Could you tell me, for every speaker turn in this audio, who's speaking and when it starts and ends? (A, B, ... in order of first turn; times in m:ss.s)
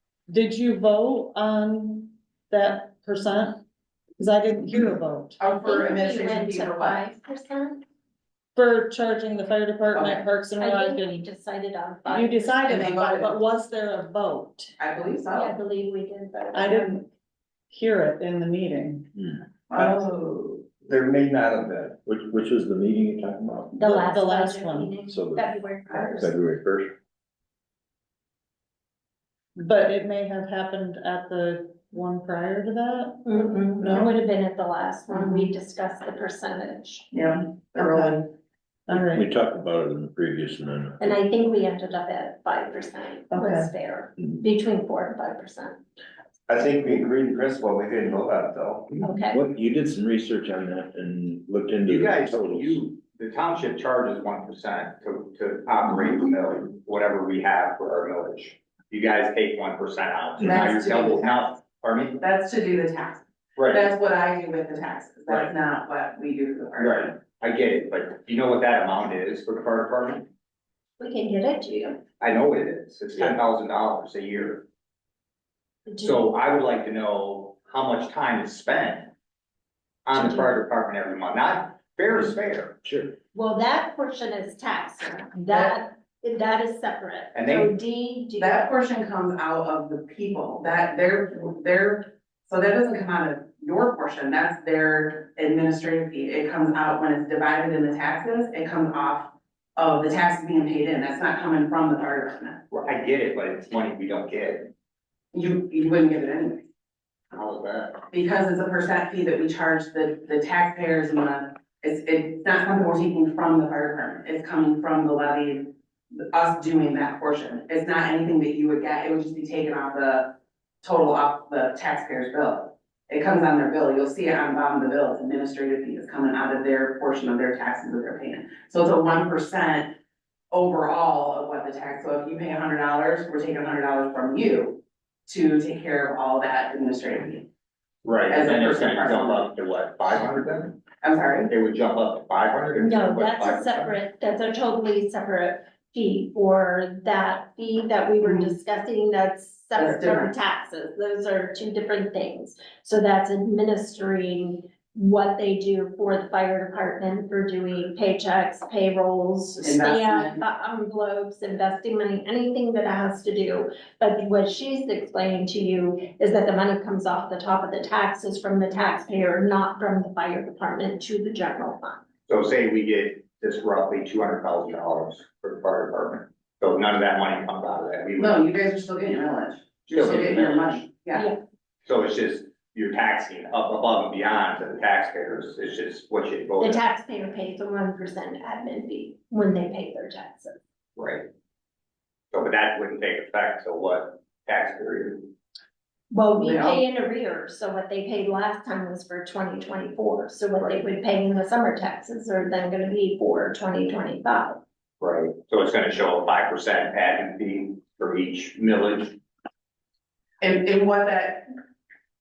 0:00.3-0:03.6 A
0:04.2-0:05.4 A
0:05.4-0:07.0 B
0:05.6-0:07.8 C
0:08.5-0:11.2 A
0:10.6-0:12.9 C
0:12.1-0:14.7 A
0:12.7-0:13.3 B
0:14.8-0:15.5 B
0:15.3-0:17.0 C
0:16.5-0:17.0 A
0:17.7-0:19.1 A
0:19.7-0:20.6 B
0:20.8-0:21.9 D
0:22.0-0:24.0 E
0:23.7-0:26.3 C
0:23.8-0:24.9 A
0:25.1-0:26.9 E
0:29.5-0:33.3 A
0:33.2-0:37.1 C
0:33.8-0:34.1 B
0:35.1-0:35.5 B
0:37.1-0:38.2 B
0:37.8-0:38.3 A
0:38.9-0:39.2 A
0:39.1-0:41.1 E
0:41.0-0:45.8 C
0:43.3-0:43.7 A
0:46.5-0:48.9 D
0:49.0-0:49.4 C
0:49.1-0:52.8 E
0:51.9-1:02.2 F
1:00.4-1:01.4 B
1:02.2-1:07.1 B
1:06.8-1:10.3 F
1:11.0-1:12.0 C
1:12.2-1:14.6 F
1:15.9-1:16.2 C
1:16.0-1:19.1 F
1:20.0-1:22.8 F
1:22.8-1:23.2 E
1:23.3-1:28.6 C
1:27.3-1:27.7 F
1:28.4-1:42.6 B
1:42.7-1:44.7 F
1:45.3-1:46.6 B
1:47.3-1:48.0 F
1:48.1-2:09.9 B
2:10.5-2:17.5 B
2:18.0-2:20.8 F
2:18.3-2:19.5 B
2:21.0-2:21.5 B
2:21.5-2:23.9 F
2:22.8-2:52.0 C
2:28.2-2:28.5 B
2:29.8-2:30.3 B
2:39.6-2:40.4 B
2:52.3-2:58.4 F
2:58.2-3:01.3 B
2:59.9-3:00.8 F
3:01.1-3:01.4 C
3:01.8-3:06.8 F
3:06.6-3:10.5 C
3:11.0-3:11.2 F
3:12.3-3:15.3 F
3:16.1-3:24.6 C
3:16.4-3:16.8 B
3:25.0-3:29.2 F
3:30.4-3:31.5 B